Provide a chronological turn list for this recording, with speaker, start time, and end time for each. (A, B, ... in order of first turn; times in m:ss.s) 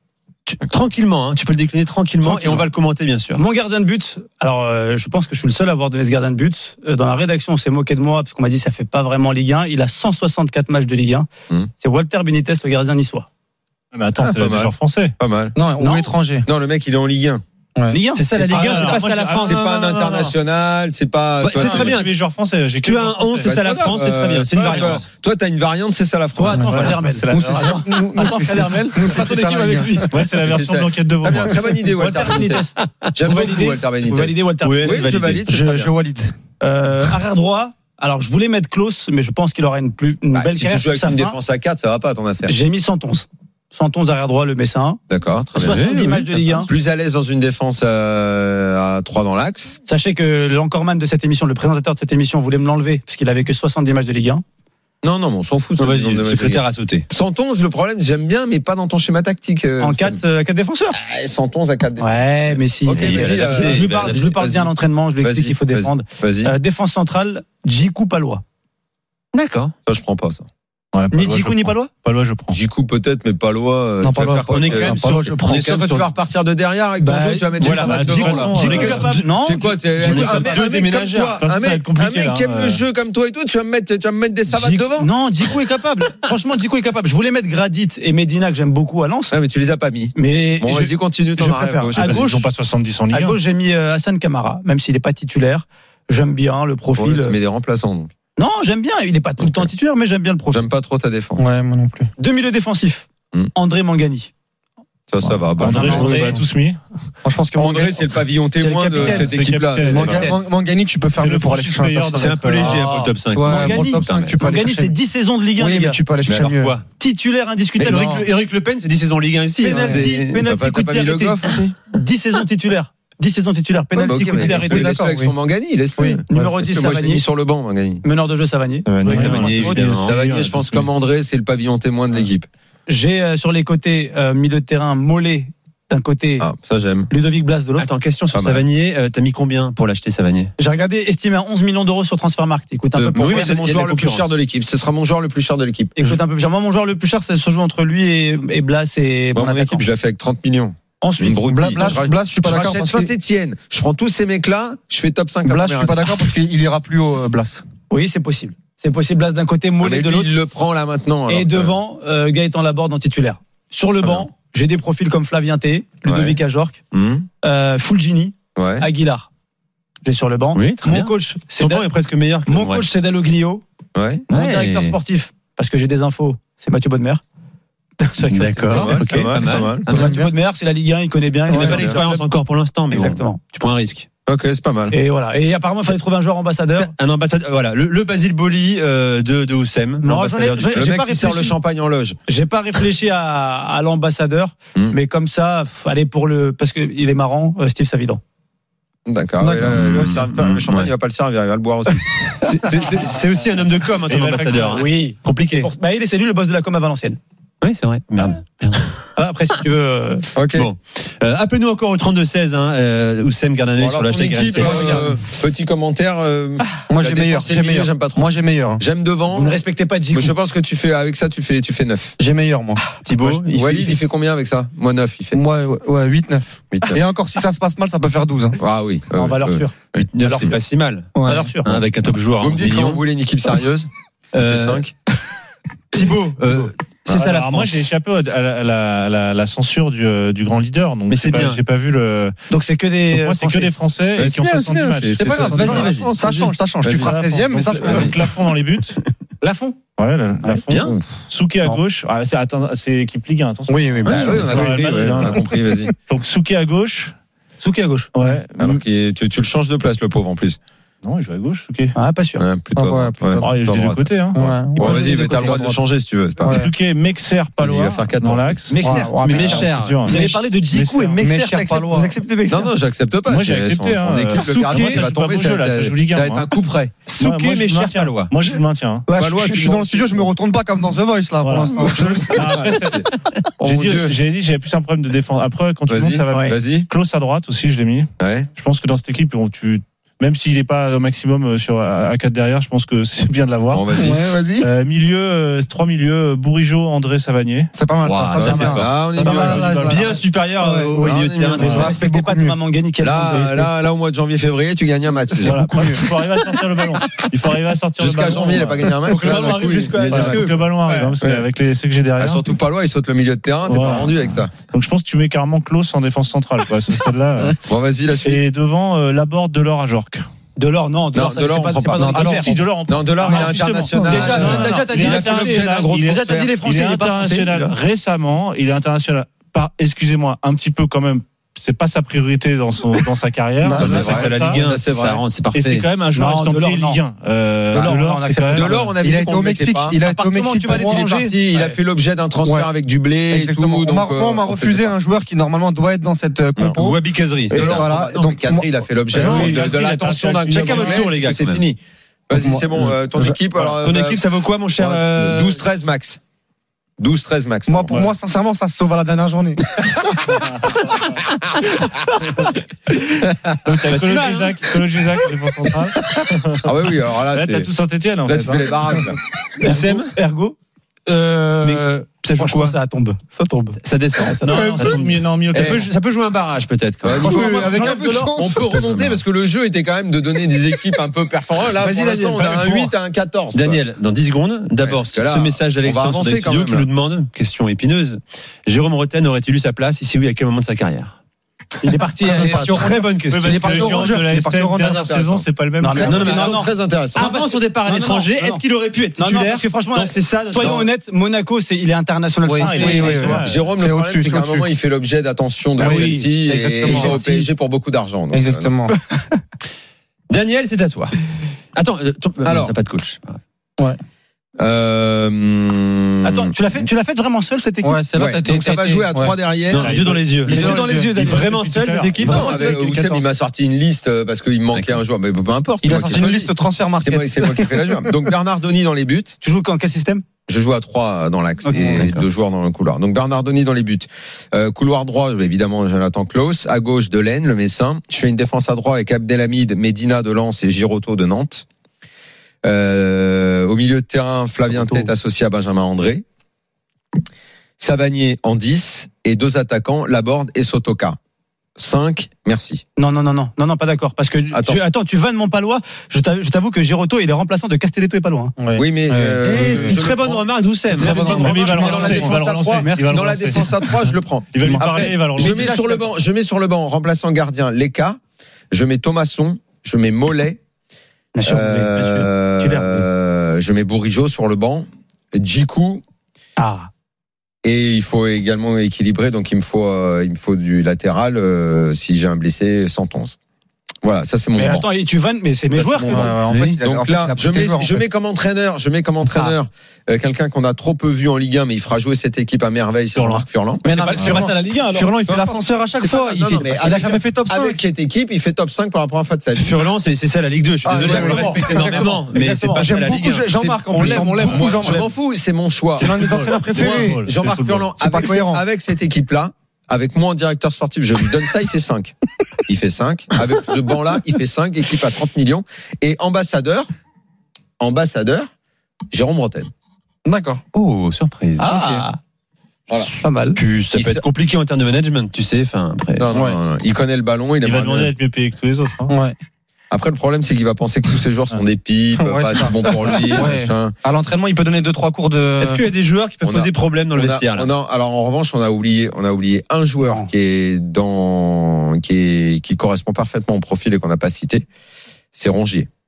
0:00.5-0:03.4 A
0:02.2-0:02.7 B
0:03.3-0:13.3 B
0:13.9-0:15.1 C
0:14.2-0:15.6 D
0:15.6-0:16.5 E
0:15.8-0:16.1 B
0:16.4-0:17.4 D
0:17.9-0:19.4 B
0:18.2-0:19.7 A
0:18.5-0:20.3 C
0:19.4-0:22.0 D
0:21.4-0:22.1 A
0:21.4-0:23.5 C
0:22.8-0:25.0 A
0:23.4-0:27.0 D
0:24.6-0:25.0 C
0:26.4-0:30.1 B
0:27.3-0:30.2 E
0:30.1-0:31.9 C
0:30.4-0:35.9 D
0:32.0-0:35.1 B
0:34.6-0:35.5 A
0:35.5-0:36.3 E
0:36.6-0:41.4 B
0:40.3-0:42.5 D
0:42.5-0:45.0 B
0:45.1-0:45.8 D
0:45.6-0:46.7 B
0:45.6-0:46.7 A
0:46.7-0:49.8 D
0:49.9-0:54.4 B
0:55.0-1:00.2 D
0:55.8-0:57.0 A
0:59.8-1:01.0 B
1:01.0-1:04.7 D
1:02.0-1:08.4 B
1:02.9-1:04.3 A
1:05.2-1:06.5 D
1:09.3-1:09.7 A
1:09.8-1:10.4 D
1:10.9-1:12.6 C
1:11.1-1:11.9 B
1:12.5-1:25.1 D
1:14.0-1:15.7 E
1:14.5-1:16.1 A
1:17.0-1:20.6 B
1:17.6-1:19.2 A
1:17.8-1:19.2 C
1:20.0-1:21.4 A
1:21.4-1:22.8 C
1:24.5-1:29.4 B
1:29.3-1:32.2 D
1:30.1-1:32.5 B
1:32.0-1:33.4 C
1:33.1-1:37.4 B
1:37.0-1:38.1 D
1:38.4-1:40.6 B
1:39.4-1:39.7 D
1:40.5-1:41.4 D
1:41.4-1:42.1 E
1:42.2-1:44.3 B
1:45.1-1:46.3 D
1:45.6-1:46.8 C
1:45.6-1:46.4 B
1:45.8-1:46.4 E
1:47.2-1:48.0 E
1:47.6-1:50.3 D
1:48.6-1:50.4 B
1:49.0-1:50.4 C
1:49.8-1:52.5 E
1:51.2-1:52.7 C
1:52.2-1:54.4 A
1:52.6-1:56.0 B
1:53.3-1:55.0 E
1:55.6-1:56.8 E
1:56.3-1:56.8 A
1:57.0-1:58.2 B
1:57.8-2:00.4 A
1:57.8-1:58.2 D
1:59.6-2:05.0 B
1:59.7-2:00.0 E
1:59.8-2:01.7 D
2:04.0-2:08.0 D
2:04.2-2:05.3 E
2:06.0-2:06.5 E
2:06.3-2:07.3 B
2:08.0-2:09.8 B
2:08.9-2:10.9 C
2:09.2-2:10.4 A
2:10.0-2:12.5 D
2:12.9-2:16.5 B
2:16.4-2:17.1 D
2:17.1-2:17.9 B
2:17.8-2:20.5 A
2:18.3-2:18.6 D
2:20.6-2:23.5 B
2:22.9-2:26.2 D
2:23.2-2:24.3 A
2:26.0-2:29.8 B
2:29.4-2:36.2 D
2:31.0-2:32.0 B
2:31.4-2:33.1 E
2:35.4-2:37.6 E
2:37.9-2:40.3 B
2:39.8-2:41.8 D
2:41.3-2:46.8 B
2:46.0-2:46.4 D
2:46.9-2:47.3 D
2:47.4-2:49.3 B
2:48.6-2:48.9 D
2:50.0-2:51.9 B
2:50.5-2:52.9 A
2:52.5-2:53.6 B
2:54.0-2:54.2 D
2:54.3-2:55.0 A
2:54.3-2:57.2 B
2:58.0-3:02.2 B
2:58.3-3:00.2 A
2:58.7-2:59.9 D
2:59.9-3:00.3 E
3:01.5-3:04.1 A
3:01.5-3:02.0 D
3:02.9-3:03.4 B
3:04.3-3:05.0 D
3:04.9-3:06.9 B
3:06.8-3:10.8 A
3:10.0-3:11.6 B
3:10.7-3:12.2 D
3:12.3-3:18.2 B
3:19.1-3:22.5 D
3:19.4-3:20.1 E
3:19.7-3:20.9 A
3:22.4-3:25.7 A
3:24.1-3:24.8 C
3:24.7-3:27.2 B
3:27.6-3:29.0 A
3:29.2-3:30.3 B
3:30.3-3:30.7 D
3:30.5-3:35.2 A
3:33.8-3:39.6 D
3:34.5-3:35.1 B
3:36.9-3:38.8 E
3:39.3-3:40.4 B
3:40.1-3:42.2 D
3:42.2-3:42.8 E
3:43.0-3:44.0 A
3:43.2-3:45.4 D
3:45.3-3:48.6 E
3:46.7-3:47.0 D
3:48.6-3:50.6 D
3:49.1-3:49.8 B
3:50.0-3:51.1 A
3:50.3-3:50.5 B
3:51.2-3:51.5 E
3:51.2-3:51.8 B
3:51.6-3:53.0 A
3:52.4-3:54.9 D
3:54.3-3:54.8 A
3:55.9-3:57.9 A
3:57.1-4:02.4 C
4:01.1-4:01.6 A
4:02.5-4:03.7 B
4:03.1-4:05.9 C
4:04.2-4:07.2 D
4:05.0-4:08.2 E
4:05.2-4:06.1 A
4:07.0-4:09.0 C
4:07.8-4:08.1 D
4:07.9-4:08.1 A
4:09.4-4:09.8 B
4:10.0-4:15.5 C
4:10.7-4:10.9 A
4:13.7-4:15.9 E
4:14.1-4:14.7 A
4:14.1-4:15.9 D
4:16.1-4:17.2 C
4:17.6-4:18.1 B
4:18.2-4:18.8 C
4:18.6-4:20.6 D
4:21.0-4:21.9 C
4:22.0-4:22.4 B
4:22.4-4:26.6 D
4:22.8-4:23.6 E
4:23.4-4:24.4 C
4:24.3-4:25.0 E
4:24.8-4:25.8 B
4:26.4-4:26.7 E
4:26.5-4:31.2 C
4:27.6-4:28.7 D
4:28.7-4:30.4 A
4:28.8-4:29.8 E
4:30.0-4:32.7 B
4:31.2-4:32.2 E
4:32.5-4:37.0 D
4:33.3-4:36.5 C
4:34.6-4:35.0 A
4:37.1-4:39.1 C
4:37.2-4:38.3 A
4:39.1-4:42.5 E
4:39.1-4:40.3 D
4:41.4-4:43.1 C
4:41.9-4:43.1 D
4:43.6-4:44.2 D
4:43.6-4:54.0 C
4:45.9-4:46.9 D
4:46.3-4:46.6 B
4:48.2-4:48.5 D
4:53.7-4:54.2 D
4:54.0-4:54.7 E
4:54.6-4:57.7 C
4:57.7-5:01.3 E
4:58.0-4:59.7 D
4:58.0-5:02.0 A
4:59.2-5:00.1 C
5:01.0-5:02.0 D
5:01.6-5:03.7 B
5:01.6-5:01.9 C
5:01.8-5:02.6 E
5:03.0-5:05.9 D
5:05.3-5:06.0 E
5:05.4-5:09.1 C
5:08.0-5:11.5 D
5:09.1-5:11.1 B
5:10.0-5:12.5 C
5:12.2-5:14.5 D
5:13.6-5:17.6 C
5:17.7-5:18.4 D
5:18.2-5:20.2 C
5:20.6-5:27.8 B
5:21.1-5:22.2 D
5:21.9-5:22.5 E
5:22.2-5:34.6 C
5:22.9-5:26.5 D
5:23.2-5:24.3 E
5:33.6-5:34.2 E
5:33.8-5:35.2 D
5:33.8-5:35.8 A
5:35.5-5:38.7 C
5:36.1-5:37.0 B
5:37.7-5:38.9 B
5:38.5-5:40.0 D
5:39.0-5:41.0 E
5:40.0-5:41.8 B
5:40.7-5:44.9 D
5:42.4-5:42.7 E
5:43.3-5:48.7 E
5:46.6-5:47.9 A
5:47.5-5:54.2 D
5:49.1-5:51.3 C
5:49.2-5:49.6 B
5:49.5-5:49.9 A
5:50.5-5:51.7 A
5:52.4-5:53.4 E
5:53.6-5:55.6 A
5:54.8-5:56.2 D
5:57.0-5:58.0 D
5:57.7-5:59.7 E
6:03.6-6:06.8 C
6:03.9-6:04.6 A
6:06.6-6:07.7 D
6:07.3-6:09.0 C
6:08.2-6:09.2 D
6:09.6-6:10.6 B
6:09.6-6:10.1 A
6:11.1-6:15.0 B
6:11.6-6:12.8 A
6:13.8-6:17.4 A
6:14.5-6:15.9 C
6:15.5-6:15.9 D
6:17.0-6:23.8 D
6:17.1-6:19.0 E
6:17.2-6:18.4 B
6:18.9-6:19.2 A
6:21.8-6:22.9 A
6:23.5-6:31.2 A
6:24.8-6:26.9 D
6:31.8-6:32.8 B
6:32.2-6:35.3 E
6:32.3-6:32.9 D
6:32.5-6:33.8 A
6:33.3-6:36.6 C
6:34.8-6:35.4 D
6:35.8-6:38.6 B
6:36.0-6:40.9 A
6:36.0-6:37.3 D
6:39.2-6:43.5 B
6:40.6-6:40.9 D
6:42.4-6:44.7 E
6:42.7-6:43.1 A
6:42.9-6:43.7 C
6:43.4-6:48.8 D
6:45.8-6:46.3 B
6:45.8-6:47.5 E
6:46.8-6:47.2 B
6:48.3-6:49.0 E
6:50.3-6:51.2 A
6:51.8-6:53.4 A
6:52.4-6:52.8 D
6:54.6-6:56.5 D
6:56.2-6:58.0 B
6:57.8-6:59.4 E
6:58.2-7:00.0 D
6:59.7-7:02.6 A
6:59.8-7:03.3 C
7:00.4-7:01.1 E
7:00.5-7:01.5 B
7:02.2-7:02.5 B
7:02.2-7:09.4 D
7:04.7-7:05.0 A
7:05.8-7:08.1 E
7:09.4-7:10.2 B
7:10.5-7:21.6 D
7:11.6-7:12.0 B
7:11.8-7:12.2 A
7:22.6-7:26.2 D
7:24.7-7:25.1 B
7:27.8-7:31.2 D
7:31.8-7:32.8 D
7:33.0-7:38.5 B
7:34.5-7:34.8 D
7:38.6-7:40.0 E
7:38.8-7:48.2 D
7:39.4-7:42.0 A
7:41.0-7:41.8 E
7:41.0-7:45.7 C
7:41.3-7:43.2 B
7:45.0-7:46.0 B
7:48.7-7:50.6 D
7:51.4-7:53.1 B
7:51.4-7:56.0 D
7:56.6-7:56.9 B
7:57.6-8:03.4 D
8:04.0-8:04.9 D
8:04.6-8:06.4 B
8:05.8-8:13.8 D
8:06.1-8:08.0 E
8:06.5-8:06.8 A
8:09.3-8:09.5 E
8:13.2-8:13.4 C
8:13.8-8:15.1 B
8:13.8-8:17.9 E
8:15.3-8:19.9 D
8:16.8-8:17.2 B
8:19.6-8:24.3 A
8:20.8-8:22.0 E
8:21.0-8:22.9 B
8:21.0-8:22.1 D
8:22.8-8:25.1 E
8:23.9-8:24.9 B
8:24.2-8:32.1 D
8:24.4-8:24.7 C
8:26.0-8:27.3 E
8:26.0-8:28.0 C
8:28.0-8:28.6 E
8:32.7-8:36.9 D
8:37.8-8:38.5 D
8:39.1-8:39.7 D
8:40.3-8:40.6 E
8:40.7-8:41.7 A
8:41.6-8:42.1 E
8:41.6-8:42.2 B
8:42.9-8:43.6 B
8:43.6-8:46.3 A
8:44.0-8:44.2 D
8:46.2-8:48.1 D
8:46.3-8:46.6 E
8:47.6-8:49.1 C
8:49.1-8:49.4 E
8:49.9-8:54.0 D
8:52.2-8:55.8 E
8:55.6-8:57.7 A
8:56.4-9:04.7 D
9:00.0-9:00.3 B
9:05.3-9:05.9 D